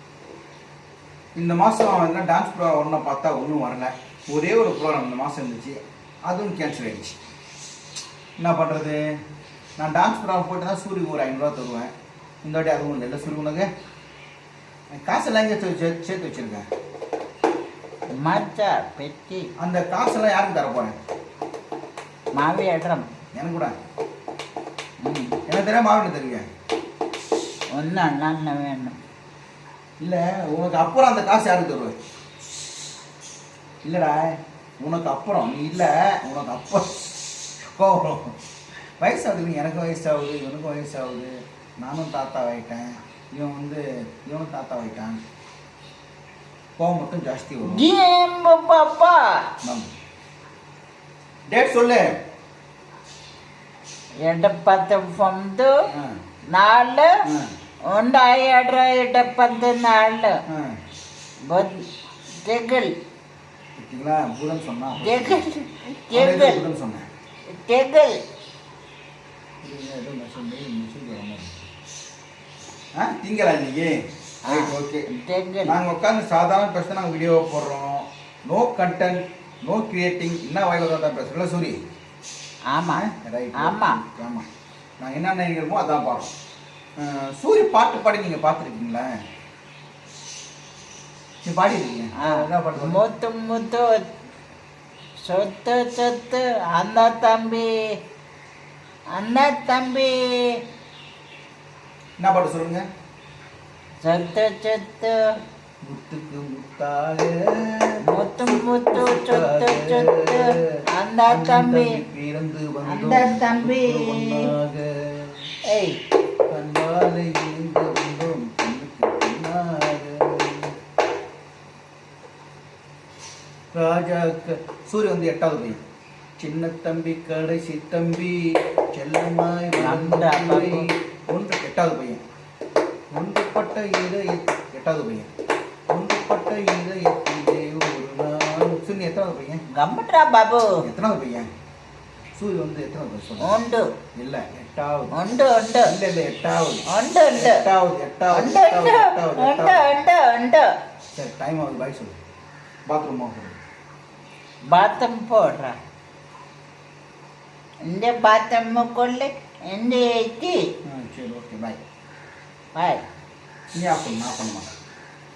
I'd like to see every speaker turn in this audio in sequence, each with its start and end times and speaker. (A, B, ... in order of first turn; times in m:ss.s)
0:01.4-0:07.2 A
0:08.4-0:09.0 A
0:09.8-0:11.9 A
0:12.4-0:13.7 A
0:14.9-0:16.7 A
0:18.2-0:19.5 B
0:19.6-0:21.0 A
0:22.4-0:23.1 B
0:23.3-0:23.8 A
0:25.0-0:25.4 B
0:25.5-0:26.5 A
0:27.8-0:29.0 B
0:30.0-0:32.0 A
0:33.8-0:37.0 A
0:37.8-0:38.3 A
0:39.0-0:45.2 A
0:46.8-0:47.9 A
0:47.6-0:49.2 B
0:49.6-0:49.9 A
0:51.5-0:52.2 A
0:54.2-0:55.7 B
0:56.5-0:57.1 B
0:57.2-0:57.5 A
0:57.9-1:00.3 B
1:00.5-1:00.8 A
1:01.5-1:01.8 B
1:02.4-1:02.9 B
1:03.8-1:05.4 A
1:05.0-1:06.6 B
1:06.1-1:07.1 A
1:07.6-1:08.2 B
1:09.6-1:11.7 A
1:13.0-1:15.1 A
1:14.5-1:15.8 B
1:15.6-1:21.8 A
1:22.7-1:23.1 B
1:23.0-1:24.5 A
1:23.6-1:24.0 B
1:25.0-1:26.3 A
1:27.0-1:29.2 A
1:31.4-1:33.0 A
1:32.2-1:34.0 B
1:35.2-1:37.7 B
1:39.2-1:40.1 B
1:42.2-1:42.8 A
1:44.0-1:45.2 B
1:45.8-1:50.6 A
1:48.1-1:52.0 B
1:51.3-1:55.5 A
1:52.9-1:54.5 B
1:55.7-1:56.0 B
1:56.5-2:00.7 A
2:03.7-2:05.8 A
2:06.4-2:12.2 A
2:09.8-2:10.8 B
2:13.1-2:15.3 A
2:15.9-2:19.6 A
2:19.7-2:20.7 B
2:20.8-2:21.5 A
2:22.4-2:23.5 A
2:23.4-2:23.8 B
2:24.2-2:25.1 A
2:25.1-2:25.9 B
2:25.9-2:26.8 A
2:26.9-2:27.6 B
2:27.4-2:29.8 A
2:28.3-2:30.7 B
2:31.1-2:32.2 A
2:32.9-2:33.6 A
2:34.7-2:35.8 B
2:37.9-2:40.6 B
2:40.8-2:41.8 A
2:42.8-2:43.0 B
2:43.7-2:44.7 A